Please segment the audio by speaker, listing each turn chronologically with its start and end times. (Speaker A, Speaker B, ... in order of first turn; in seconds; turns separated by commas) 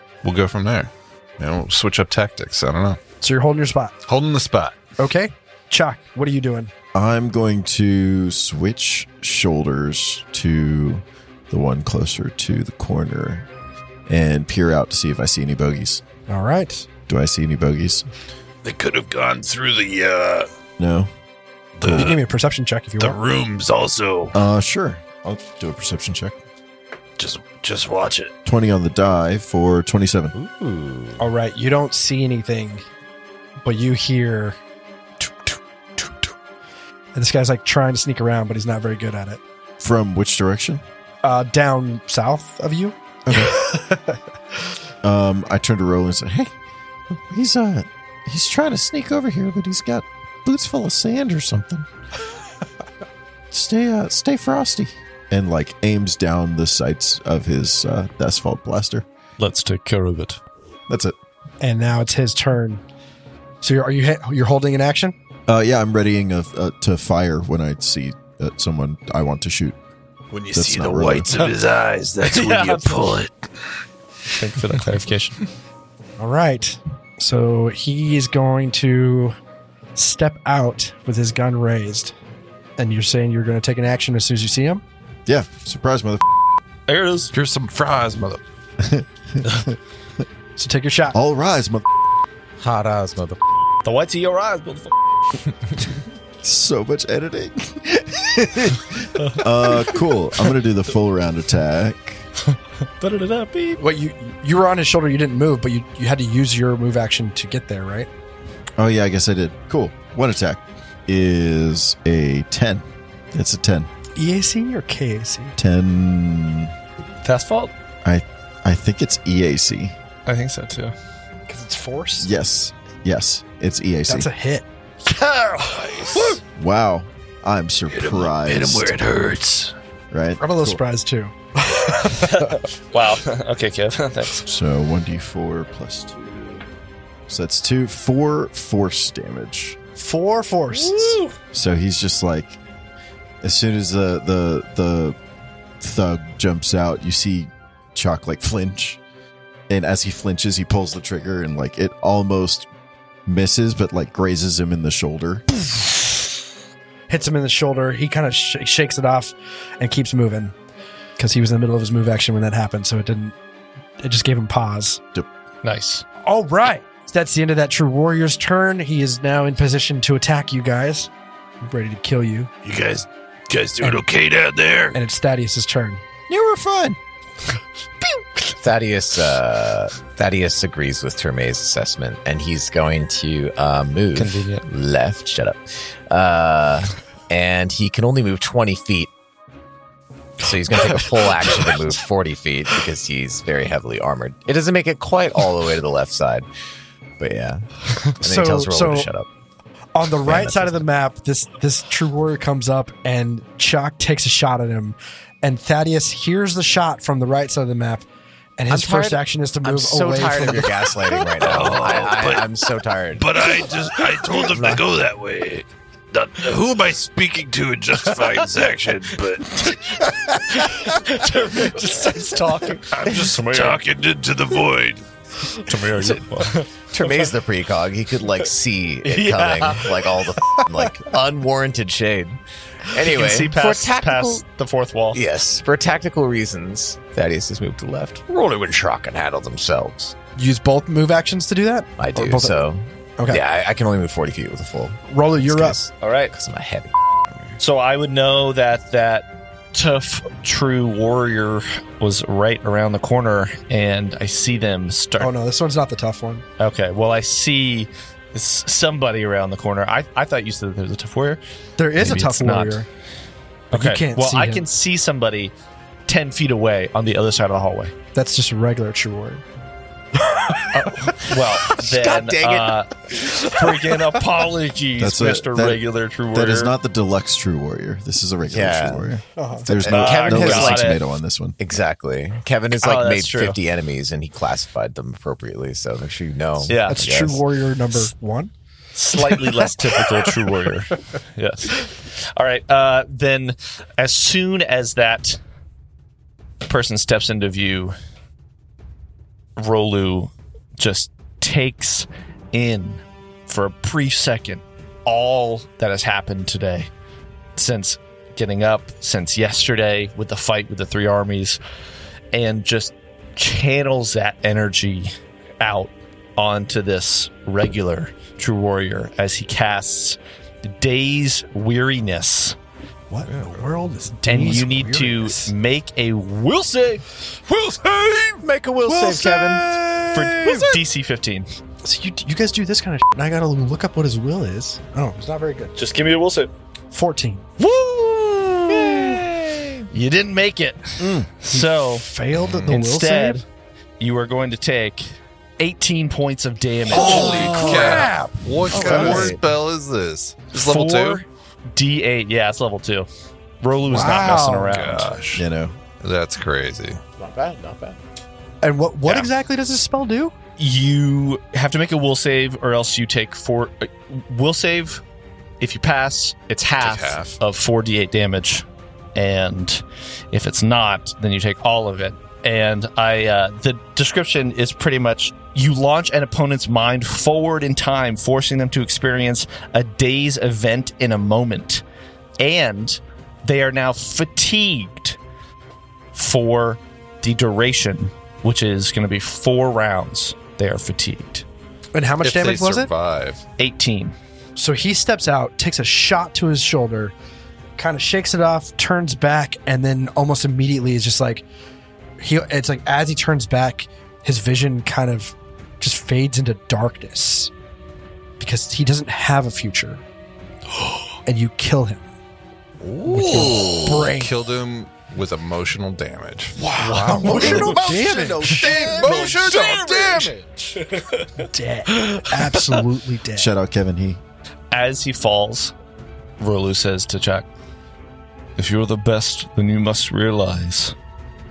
Speaker A: 0.2-3.0, Speaker B: 3.2-3.9, Speaker A: 4.0-4.8, Speaker B: 5.0-6.7, Speaker C: 6.9-13.5, Speaker C: 14.1-16.0, Speaker B: 16.3-16.9, Speaker C: 17.1-18.1, Speaker D: 18.6-20.5, Speaker C: 20.8-21.1, Speaker D: 21.8-22.2, Speaker C: 21.8-22.1, Speaker B: 21.9-23.2, Speaker D: 23.0-24.3, Speaker C: 24.3-26.4, Speaker D: 27.2-28.3, Speaker C: 28.4-30.4, Speaker E: 30.3-31.2, Speaker B: 31.2-32.8, Speaker B: 33.6-34.6, Speaker B: 35.2-36.3, Speaker B: 37.1-39.4, Speaker C: 39.8-40.8, Speaker B: 41.2-44.2, Speaker C: 43.2-43.6, Speaker C: 45.0-46.5, Speaker C: 47.1-51.9, Speaker C: 53.5-59.0, Speaker F: 59.4-60.4, Speaker C: 60.9-61.1, Speaker B: 61.6-62.8, Speaker B: 63.6-65.1, Speaker C: 65.5-69.8, Speaker D: 70.3-73.3, Speaker C: 70.5-71.3, Speaker F: 72.2-73.1, Speaker F: 74.3-75.4, Speaker B: 76.2-79.3, Speaker B: 80.0-82.1, Speaker B: 82.8-84.8, Speaker C: 85.2-86.2, Speaker F: 86.9-87.3, Speaker A: 87.3-88.4, Speaker C: 88.8-89.8, Speaker B: 90.6-91.2, Speaker C: 91.1-91.8, Speaker E: 92.6-93.4, Speaker F: 93.8-94.9, Speaker C: 96.4-102.2, Speaker F: 103.0-103.8, Speaker B: 103.8-108.1, Speaker C: 108.8-113.9, Speaker B: 114.2-115.5, Speaker C: 115.6-116.7, Speaker F: 117.2-117.7, Speaker C: 118.0-119.9, Speaker F: 120.2-120.9, Speaker B: 121.5-122.3, Speaker C: 122.2-124.3, Speaker B: 124.1-124.6, Speaker F: 125.1-125.6, Speaker D: 125.6-126.4, Speaker C: 126.5-128.9, Speaker D: 127.9-129.7, Speaker C: 130.1-130.8, Speaker B: 130.4-132.5, Speaker F: 132.1-134.5, Speaker C: 134.4-136.1, Speaker C: 137.3-139.8, Speaker B: 140.0-141.2, Speaker F: 140.7-141.3, Speaker C: 141.5-142.6, Speaker C: 143.4-145.2, Speaker C: 145.8-149.0, Speaker C: 149.7-152.7, Speaker C: 153.2-155.4, Speaker B: 157.1-160.5, Speaker B: 161.2-163.3, Speaker B: 164.0-165.0, Speaker F: 165.6-166.0, Speaker B: 166.2-171.1, Speaker B: 171.6-172.5, Speaker D: 172.6-175.0, Speaker B: 174.9-176.0, Speaker C: 176.3-177.0, Speaker E: 178.6-189.1, Speaker F: 184.1-184.7, Speaker E: 190.4-196.5, Speaker E: 197.2-199.3, Speaker B: 198.2-199.1, Speaker B: 199.9-208.1, Speaker E: 200.2-200.8, Speaker B: 208.6-210.9, Speaker E: 208.7-213.4, Speaker D: 211.4-212.5, Speaker D: 213.2-220.0, Speaker E: 214.5-214.8, Speaker F: 220.0-223.8, Speaker D: 223.0-225.0, Speaker F: 225.6-226.7, Speaker E: 225.9-234.4, Speaker F: 229.0-230.0, Speaker F: 233.0-235.2, Speaker E: 235.1-240.1, Speaker B: 240.3-242.6, Speaker E: 242.0-247.6, Speaker B: 245.1-245.8, Speaker F: 246.0-246.3, Speaker F: 247.6-255.3, Speaker B: 255.2-256.4, Speaker F: 256.6-261.4, Speaker B: 261.8-262.9, Speaker F: 262.0-262.8, Speaker B: 263.7-264.6, Speaker F: 263.7-265.5, Speaker F: 266.1-267.9, Speaker B: 268.1-269.4, Speaker F: 270.7-276.7, Speaker E: 271.6-272.8, Speaker C: 275.0-281.6, Speaker E: 278.5-279.1, Speaker B: 279.4-279.9, Speaker E: 279.8-280.9, Speaker F: 279.8-281.0, Speaker E: 281.6-287.4, Speaker F: 282.8-283.6, Speaker F: 286.7-287.0, Speaker B: 286.9-288.5, Speaker F: 288.9-295.4, Speaker B: 289.2-290.3, Speaker F: 296.6-297.9, Speaker F: 299.6-306.9, Speaker F: 307.6-311.6, Speaker F: 312.3-322.6, Speaker B: 323.1-325.5, Speaker F: 324.2-327.0, Speaker E: 328.4-330.6, Speaker F: 330.1-331.5, Speaker B: 331.8-335.7, Speaker F: 335.8-336.5, Speaker B: 336.9-337.5, Speaker E: 337.7-339.9, Speaker F: 338.8-339.2, Speaker F: 339.9-342.1, Speaker C: 341.0-341.3, Speaker B: 341.5-343.4, Speaker A: 342.3-342.8, Speaker F: 342.7-343.4, Speaker F: 344.0-347.4, Speaker A: 346.9-351.2, Speaker B: 346.9-349.3, Speaker D: 346.9-348.0, Speaker E: 347.1-348.1, Speaker E: 348.7-349.4, Speaker F: 348.9-349.2, Speaker F: 350.5-353.1, Speaker F: 353.6-355.2, Speaker B: 353.9-354.8, Speaker D: 354.7-355.4, Speaker C: 355.3-355.8, Speaker A: 356.0-357.0, Speaker E: 357.2-358.0, Speaker B: 358.6-360.3, Speaker F: 360.6-365.0, Speaker F: 365.6-381.8, Speaker A: 366.8-367.4, Speaker F: 382.4-385.2, Speaker F: 386.1-391.4, Speaker B: 391.9-392.9, Speaker A: 392.2-393.4, Speaker F: 393.6-394.1, Speaker B: 394.6-397.1, Speaker B: 397.8-401.4, Speaker B: 402.2-407.5, Speaker B: 408.4-410.0, Speaker B: 411.2-412.0, Speaker D: 413.0-413.8, Speaker B: 413.1-414.3, Speaker A: 413.2-416.6, Speaker F: 416.7-417.9, Speaker B: 416.8-419.2, Speaker C: 417.1-419.4, Speaker D: 418.6-420.3, Speaker A: 418.6-420.3, Speaker F: 420.8-421.3, Speaker B: 421.4-423.5, Speaker C: 423.3-424.2, Speaker F: 424.7-425.7, Speaker F: 426.4-427.5, Speaker F: 428.6-430.9